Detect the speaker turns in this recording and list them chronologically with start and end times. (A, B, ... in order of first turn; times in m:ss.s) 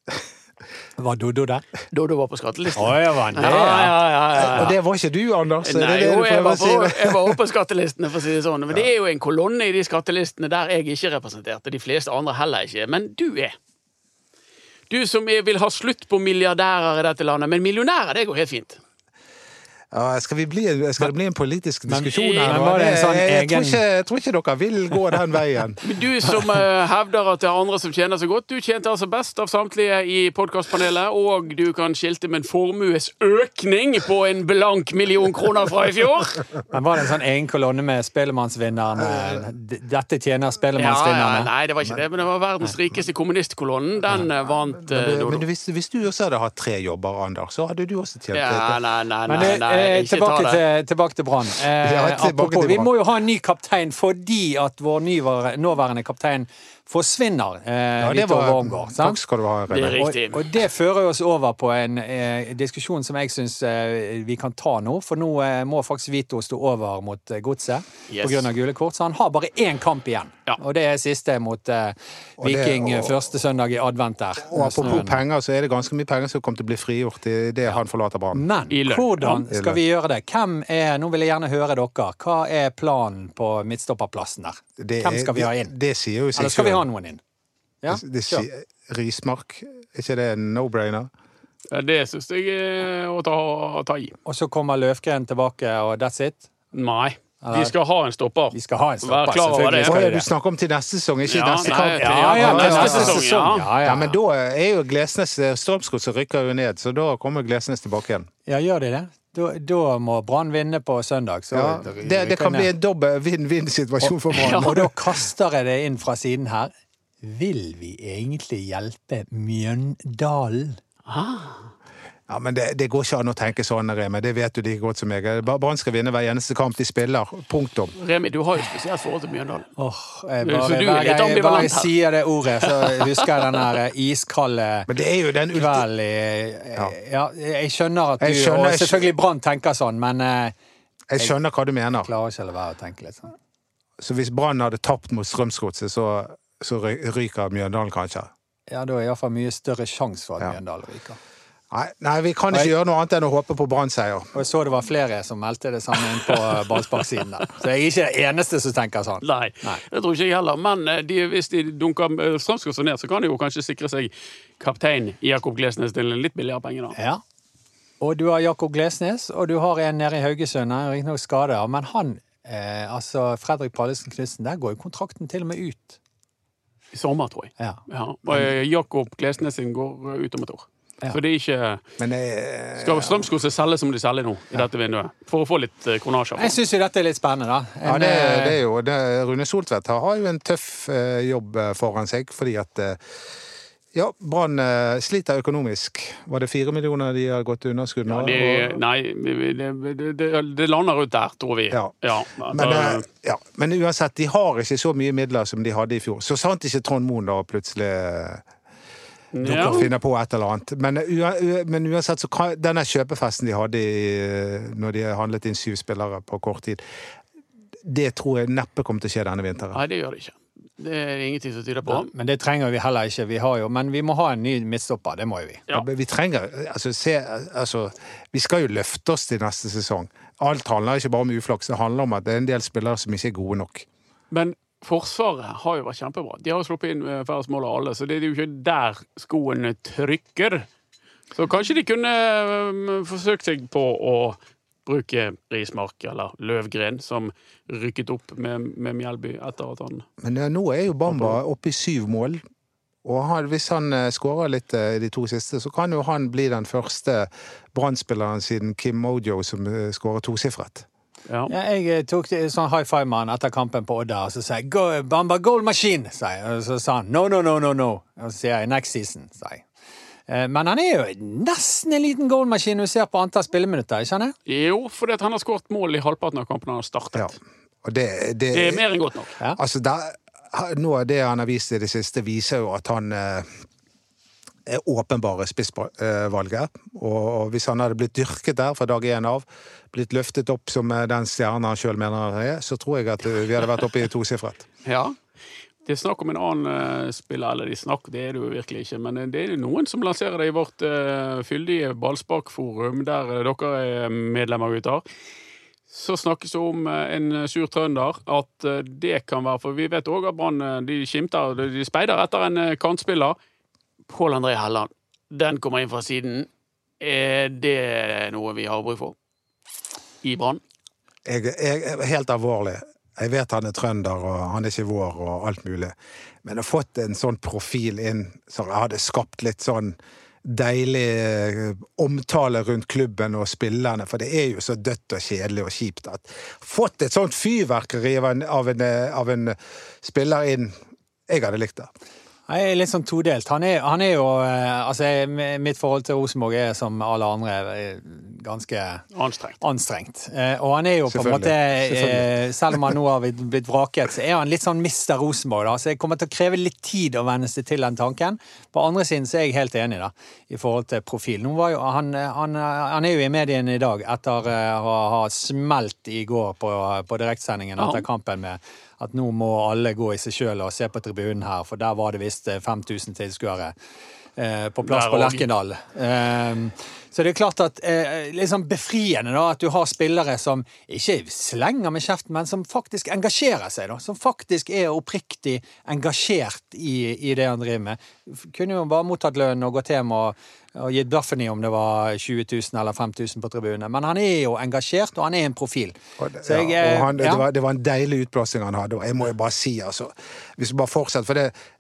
0:01.0-0:01.7 A
0:01.9-0:04.8 B
0:02.8-0:04.7 A
0:03.4-0:03.8 C
0:04.4-0:07.4 C
0:05.6-0:13.6 B
0:14.9-0:18.8 B
0:19.9-0:25.8 C
0:21.9-0:23.8 A
0:22.1-0:22.8 B
0:25.8-0:36.4 B
0:36.7-0:41.5 A
0:39.0-0:39.4 C
0:40.8-0:45.4 B
0:44.8-0:48.8 C
0:48.3-0:50.6 B
0:49.2-0:59.2 A
0:51.8-0:52.9 C
0:58.0-1:00.1 C
0:59.7-1:00.4 B
1:00.0-1:15.2 A
1:08.1-1:08.5 B
1:12.4-1:13.2 C
1:14.5-1:18.4 C
1:18.3-1:25.7 A
1:18.7-1:19.5 B
1:19.5-1:19.8 C
1:24.8-1:26.8 C
1:26.4-1:27.2 A
1:27.8-1:28.5 A
1:27.9-1:31.1 C
1:31.7-1:34.2 B
1:34.2-1:36.5 A
1:36.7-1:40.0 B
1:37.4-1:37.7 A
1:38.5-1:40.3 A
1:39.8-1:43.2 C
1:41.2-1:43.7 B
1:42.0-1:44.1 A
1:43.8-1:48.3 C
1:48.5-1:52.7 A
1:51.5-1:54.9 C
1:54.0-2:00.8 A
1:54.3-1:54.8 B
2:01.1-2:01.7 B
2:02.3-2:07.9 C
2:08.0-2:09.7 B
2:09.8-2:14.9 A
2:10.4-2:11.9 B
2:12.6-2:13.2 B
2:14.9-2:15.9 C
2:15.5-2:20.5 A
2:18.2-2:19.1 C
2:21.1-2:22.1 C
2:22.0-2:23.3 A
2:24.0-2:28.3 C
2:28.7-2:31.2 A
2:31.7-2:34.3 C
2:34.4-2:39.8 A
2:36.3-2:36.8 B
2:39.2-2:47.0 B
2:47.0-2:47.2 A
2:48.0-2:56.0 A
2:56.9-3:01.8 B
3:02.0-3:03.3 C
3:02.8-3:06.5 B
3:06.4-3:08.6 A
3:07.8-3:13.0 C
3:13.9-3:18.8 C
3:18.0-3:23.0 B
3:22.5-3:28.4 C
3:29.3-3:29.9 B
3:29.4-3:36.8 C
3:37.8-3:39.8 C
3:39.7-3:42.1 B
3:41.9-3:45.6 A
3:45.7-3:53.9 C
3:54.3-4:00.7 B
4:01.3-4:10.0 B
4:10.2-4:12.4 C
4:13.0-4:20.9 C
4:21.5-4:29.7 A
4:30.3-4:34.4 A
4:34.5-4:37.4 B
4:37.2-4:38.8 C
4:38.5-4:39.3 B
4:39.6-4:43.6 C
4:44.7-4:54.7 C
4:54.8-4:55.2 B
4:55.9-5:05.0 B
5:05.9-5:13.4 B
5:14.1-5:16.5 B
5:17.0-5:19.2 B
5:20.2-5:20.6 B
5:21.2-5:40.8 C
5:41.3-5:41.9 C
5:42.5-5:49.0 A
5:49.1-5:49.6 B
5:49.6-6:13.7 A
5:51.1-5:52.9 C
6:07.8-6:08.0 B
6:14.4-6:37.4 A
6:14.8-6:15.4 B
6:36.2-6:41.5 C